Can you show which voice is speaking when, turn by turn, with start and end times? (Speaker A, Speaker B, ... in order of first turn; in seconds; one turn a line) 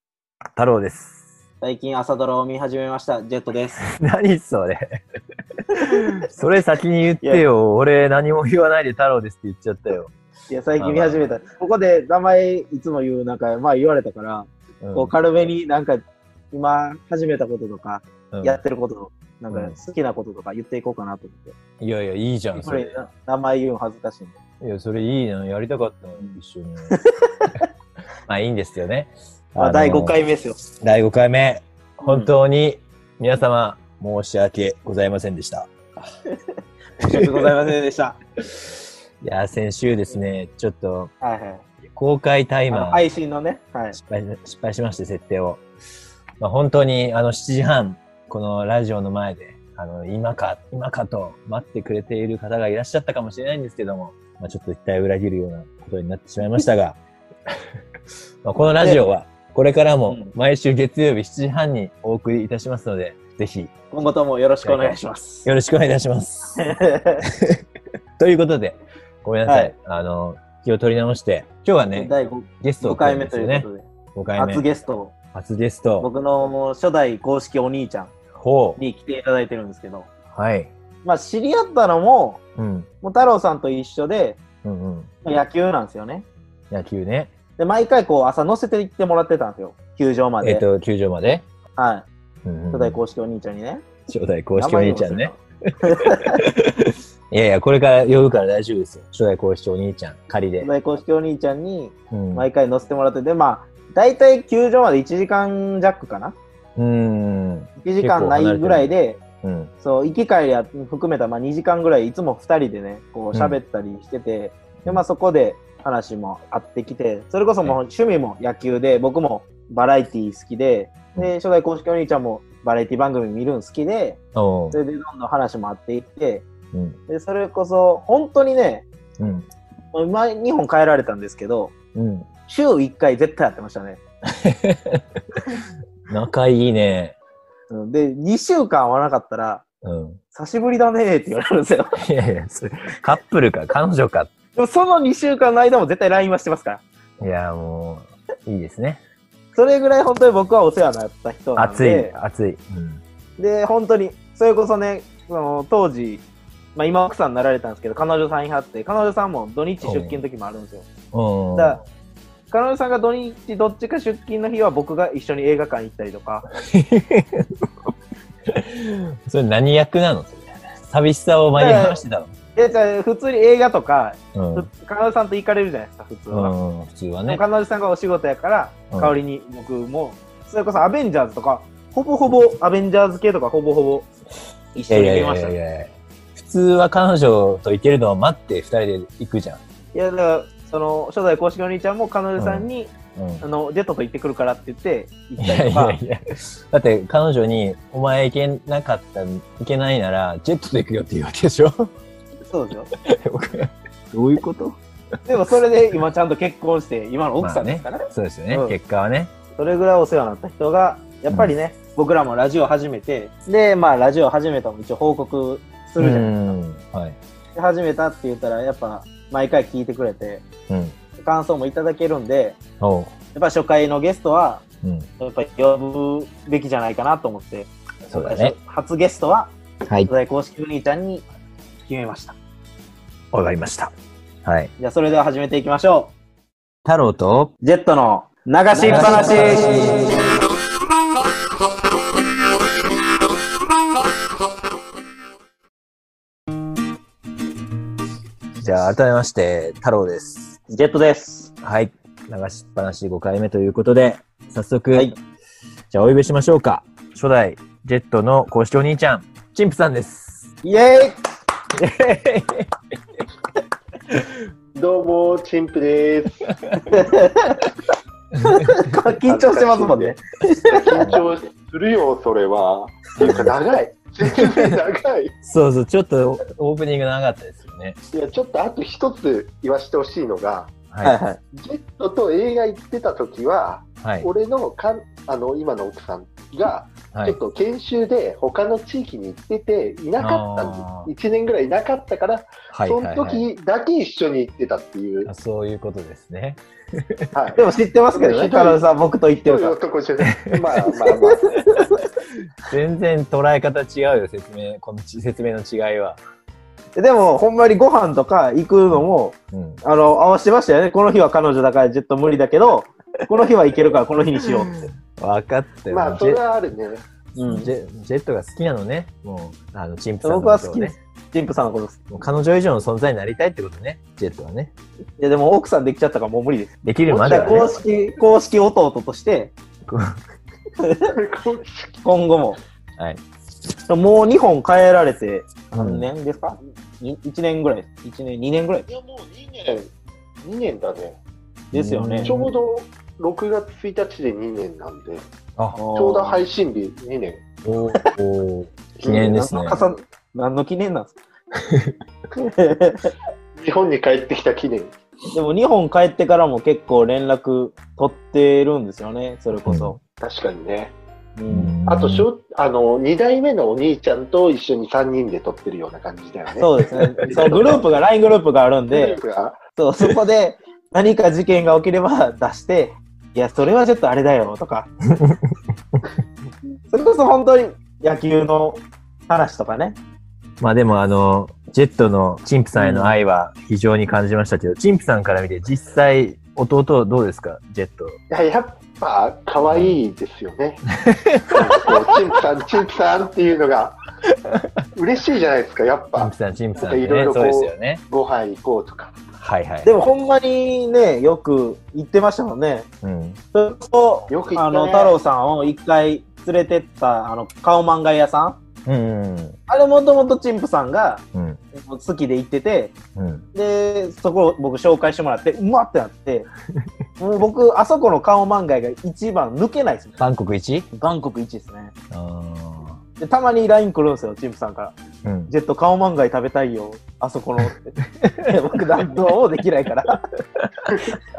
Speaker A: 0.6-1.3
Speaker B: 1.6-3.8
Speaker A: 3.8-5.0
Speaker A: 5.7-10.1
Speaker B: 10.5-21.6
Speaker A: 10.8-11.4
Speaker A: 14.8-15.1
Speaker A: 18.3-18.6
Speaker A: 19.5-19.8
Speaker A: 21.8-23.0
Speaker B: 22.6-24.4
Speaker A: 24.6-27.0
Speaker B: 26.9-27.5
Speaker A: 28.3-30.2
Speaker B: 29.6-30.6
Speaker A: 30.8-35.7
Speaker B: 32.0-32.3
Speaker B: 37.0-38.2
Speaker A: 37.0-37.5
Speaker A: 39.2-41.1
Speaker B: 41.2-41.6
Speaker A: 41.9-43.0
Speaker B: 42.7-44.0
Speaker A: 43.9-45.6
Speaker A: 46.4-57.0
Speaker A: 58.4-63.7
Speaker B: 60.1-60.3
Speaker B: 63.9-65.5
Speaker A: 64.6-67.6
Speaker B: 66.6-67.2
Speaker A: 68.2-74.6
Speaker B: 69.5-69.7
Speaker B: 71.9-73.8
Speaker B: 74.4-75.1
Speaker A: 75.3-76.1
Speaker B: 76.0-78.1
Speaker A: 78.4-78.8
Speaker B: 78.8-80.1
Speaker A: 80.3-80.7
Speaker B: 81.0-82.4
Speaker A: 82.6-82.9
Speaker B: 83.0-84.4
Speaker A: 84.6-85.1
Speaker B: 85.2-86.2
Speaker A: 86.7-87.3
Speaker B: 87.6-90.6
Speaker A: 90.4-91.4
Speaker B: 91.8-92.1
Speaker A: 92.4-93.0
Speaker B: 92.7-93.8
Speaker A: 94.1-100.7
Speaker B: 94.6-95.3
Speaker B: 95.9-96.4
Speaker B: 100.6-106.3
Speaker A: 102.1-102.5
Speaker A: 106.8-108.9
Speaker B: 107.8-109.2
Speaker A: 109.4-109.7
Speaker B: 109.8-124.2
Speaker A: 113.3-113.6
Speaker A: 124.3-124.8
Speaker B: 124.7-126.5
Speaker B: 127.1-128.8
Speaker A: 129.2-129.5
Speaker B: 129.9-131.7
Speaker A: 131.9-132.3
Speaker B: 132.5-134.0
Speaker A: 134.2-135.6
Speaker A: 136.1-137.2
Speaker B: 137.7-139.6
Speaker A: 139.8-140.2
Speaker B: 140.3-142.0
Speaker A: 142.0-144.3
Speaker B: 144.6-146.8
Speaker A: 147.2-149.0
Speaker B: 149.5-152.1
Speaker A: 151.6-153.0
Speaker B: 153.4-156.2
Speaker B: 156.8-160.8
Speaker A: 159.8-160.2
Speaker A: 161.1-161.8
Speaker B: 161.5-161.8
Speaker B: 162.5-166.5
Speaker A: 166.5-167.7
Speaker A: 168.5-172.3
Speaker B: 171.6-172.0
Speaker B: 172.6-176.5
Speaker A: 174.3-174.7
Speaker A: 176.3-177.4
Speaker B: 177.3-184.1
Speaker B: 184.8-185.6
Speaker A: 184.9-189.6
Speaker B: 189.9-196.0
Speaker A: 192.4-193.4
Speaker A: 195.4-201.9
Speaker B: 202.5-202.9
Speaker A: 203.0-204.8
Speaker B: 205.3-208.8
Speaker A: 207.4-209.3
Speaker B: 209.6-216.5
Speaker A: 216.0-217.2
Speaker B: 217.5-220.4
Speaker A: 220.7-220.9
Speaker B: 221.2-222.6
Speaker A: 222.8-223.1
Speaker B: 223.3-224.6
Speaker A: 224.8-225.1
Speaker B: 225.2-229.5
Speaker A: 228.1-228.5
Speaker B: 230.1-231.2
Speaker B: 231.9-232.3
Speaker A: 233.3-233.9
Speaker A: 234.4-234.7
Speaker B: 234.8-236.1
Speaker A: 236.8-237.5
Speaker B: 237.6-240.0
Speaker A: 238.8-240.4
Speaker A: 248.6-250.6
Speaker B: 250.7-251.5
Speaker A: 251.6-255.1
Speaker A: 255.9-260.5
Speaker B: 260.6-261.2
Speaker A: 261.8-262.7
Speaker C: 264.8-266.4
Speaker A: 266.4-266.8
Speaker B: 266.9-267.7
Speaker A: 268.3-268.9
Speaker B: 268.4-271.1
Speaker C: 269.2-270.1
Speaker C: 270.7-275.3
Speaker A: 273.2-273.5
Speaker A: 274.3-274.7
Speaker A: 275.4-278.0
Speaker C: 278.1-280.7
Speaker A: 280.9-281.2
Speaker B: 281.0-281.4
Speaker C: 281.5-295.3
Speaker A: 284.0-284.3
Speaker A: 290.2-291.1
Speaker A: 292.7-293.4
Speaker A: 295.2-297.3
Speaker C: 297.3-297.6
Speaker B: 297.6-299.8
Speaker C: 298.2-298.9
Speaker C: 299.4-301.5
Speaker A: 300.3-300.6
Speaker B: 301.0-302.1
Speaker A: 302.7-306.2
Speaker B: 306.9-314.9
Speaker A: 308.9-309.8
Speaker A: 314.4-316.4
Speaker C: 315.9-317.0
Speaker B: 317.4-317.7
Speaker A: 317.4-320.9
Speaker B: 320.2-322.0
Speaker A: 322.1-324.7
Speaker B: 325.2-329.5
Speaker A: 326.8-327.8
Speaker C: 327.1-327.7
Speaker A: 329.9-330.2
Speaker B: 330.8-331.1
Speaker C: 331.1-332.0
Speaker B: 332.0-332.6
Speaker B: 333.9-338.9
Speaker A: 335.8-336.1
Speaker C: 338.9-339.9
Speaker C: 340.4-341.2
Speaker A: 341.7-342.5
Speaker B: 341.7-342.4
Speaker C: 342.2-345.2
Speaker A: 345.6-345.8
Speaker B: 345.8-346.4
Speaker C: 345.9-347.4
Speaker A: 347.6-349.8
Speaker C: 349.0-350.0
Speaker B: 349.1-351.2
Speaker A: 351.6-351.9
Speaker B: 352.4-353.1
Speaker C: 353.6-354.9
Speaker B: 355.3-360.0
Speaker A: 359.6-360.0
Speaker C: 360.2-360.9
Speaker B: 361.4-361.8
Speaker A: 361.5-362.3
Speaker C: 361.9-366.7
Speaker B: 366.6-369.2
Speaker A: 366.9-367.8
Speaker C: 367.2-367.8
Speaker C: 368.9-369.6
Speaker B: 369.8-374.9
Speaker A: 375.2-376.1
Speaker B: 376.9-380.0
Speaker A: 380.6-388.2
Speaker B: 382.8-383.1
Speaker C: 388.3-390.8
Speaker A: 389.7-389.9
Speaker A: 390.9-391.9
Speaker C: 391.5-393.9
Speaker C: 394.9-399.1
Speaker A: 396.1-398.0
Speaker A: 399.4-399.9
Speaker B: 399.9-402.9
Speaker A: 403.0-403.4
Speaker B: 403.5-408.6
Speaker C: 404.3-405.2
Speaker A: 408.9-409.6
Speaker B: 409.7-411.2
Speaker A: 411.3-411.6
Speaker B: 411.7-412.9
Speaker A: 413.1-413.4
Speaker B: 413.6-416.5
Speaker B: 417.2-420.1
Speaker A: 420.2-420.9
Speaker B: 420.9-421.9
Speaker A: 422.1-423.0
Speaker B: 423.2-424.9
Speaker A: 425.2-425.5
Speaker B: 425.5-430.2
Speaker A: 428.2-428.4
Speaker A: 430.6-431.0